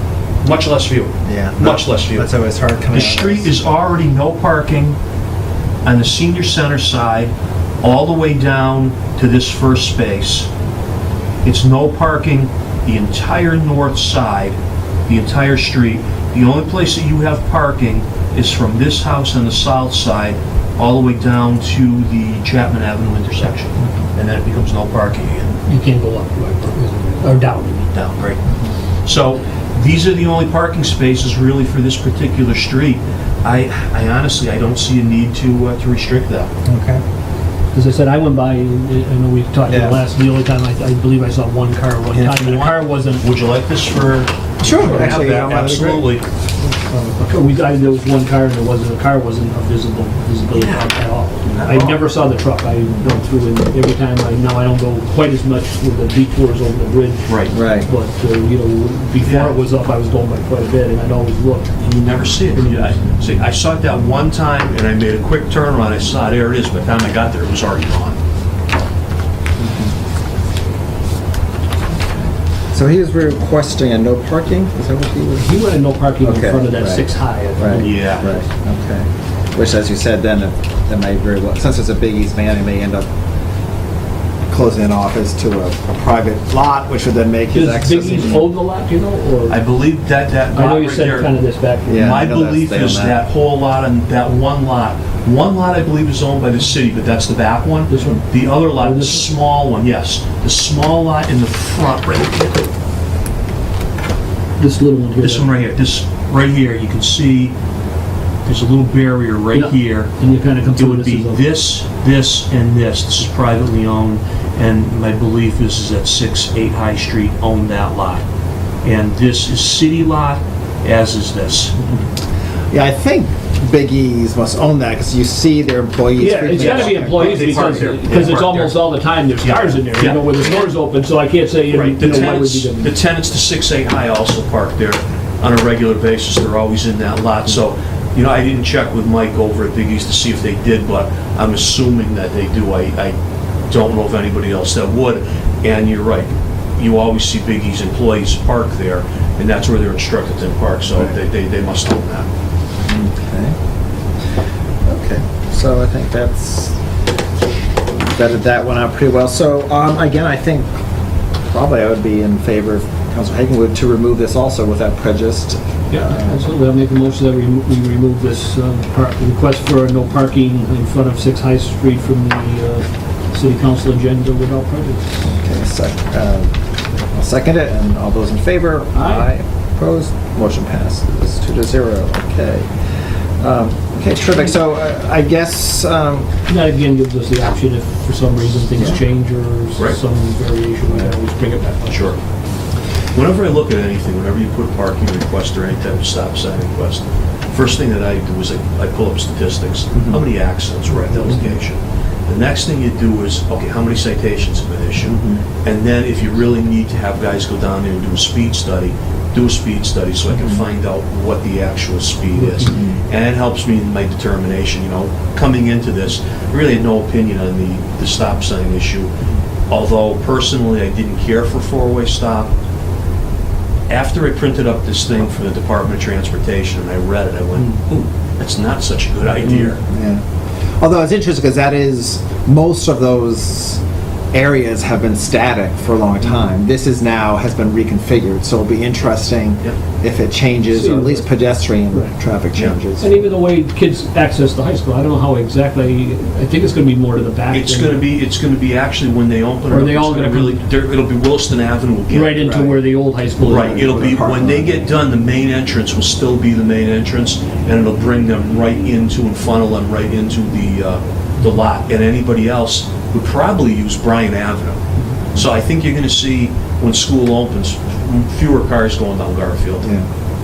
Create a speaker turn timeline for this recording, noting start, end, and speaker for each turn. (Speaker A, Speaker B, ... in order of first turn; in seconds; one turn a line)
Speaker A: 0.4-2.3
Speaker B: 1.2-3.5
Speaker A: 2.9-5.0
Speaker A: 5.8-10.5
Speaker A: 11.4-25.6
Speaker C: 25.7-27.9
Speaker A: 27.9-28.4
Speaker A: 29.0-36.5
Speaker B: 36.7-37.0
Speaker C: 37.7-43.2
Speaker B: 39.7-40.0
Speaker A: 42.1-46.2
Speaker B: 44.6-46.1
Speaker C: 44.8-45.3
Speaker C: 46.9-61.8
Speaker A: 50.5-50.9
Speaker A: 51.4-52.0
Speaker A: 57.3-57.5
Speaker B: 57.5-57.9
Speaker A: 59.2-59.5
Speaker A: 61.8-68.2
Speaker C: 62.5-62.9
Speaker B: 69.6-69.9
Speaker B: 71.8-75.6
Speaker C: 75.4-78.4
Speaker B: 76.2-83.1
Speaker A: 77.8-78.3
Speaker B: 84.5-88.5
Speaker C: 87.5-89.7
Speaker A: 89.5-91.3
Speaker C: 90.5-92.1
Speaker B: 91.9-93.2
Speaker A: 91.9-102.7
Speaker C: 97.9-99.3
Speaker C: 104.6-105.5
Speaker A: 105.2-107.5
Speaker A: 108.5-110.1
Speaker C: 109.5-111.5
Speaker A: 110.8-118.2
Speaker A: 118.8-121.8
Speaker B: 122.7-127.9
Speaker C: 126.2-133.0
Speaker A: 126.5-128.8
Speaker A: 129.4-130.7
Speaker A: 131.7-143.2
Speaker A: 143.7-152.3
Speaker B: 152.8-153.6
Speaker B: 154.8-156.8
Speaker B: 157.9-160.7
Speaker B: 161.5-166.5
Speaker C: 165.9-175.1
Speaker B: 175.2-176.5
Speaker B: 177.1-182.7
Speaker C: 178.9-179.3
Speaker B: 183.4-186.3
Speaker C: 186.5-192.1
Speaker B: 188.8-189.0
Speaker A: 191.9-192.2
Speaker A: 193.1-219.1
Speaker B: 212.6-213.0
Speaker A: 219.7-222.5
Speaker A: 223.9-229.8
Speaker B: 229.9-230.2
Speaker B: 230.8-233.8
Speaker B: 234.3-243.3
Speaker C: 240.7-241.3
Speaker C: 243.0-248.0
Speaker A: 247.5-252.5
Speaker C: 249.7-250.6
Speaker C: 252.1-254.1
Speaker B: 252.4-252.8
Speaker A: 253.4-264.8
Speaker B: 253.5-254.8
Speaker A: 265.3-269.9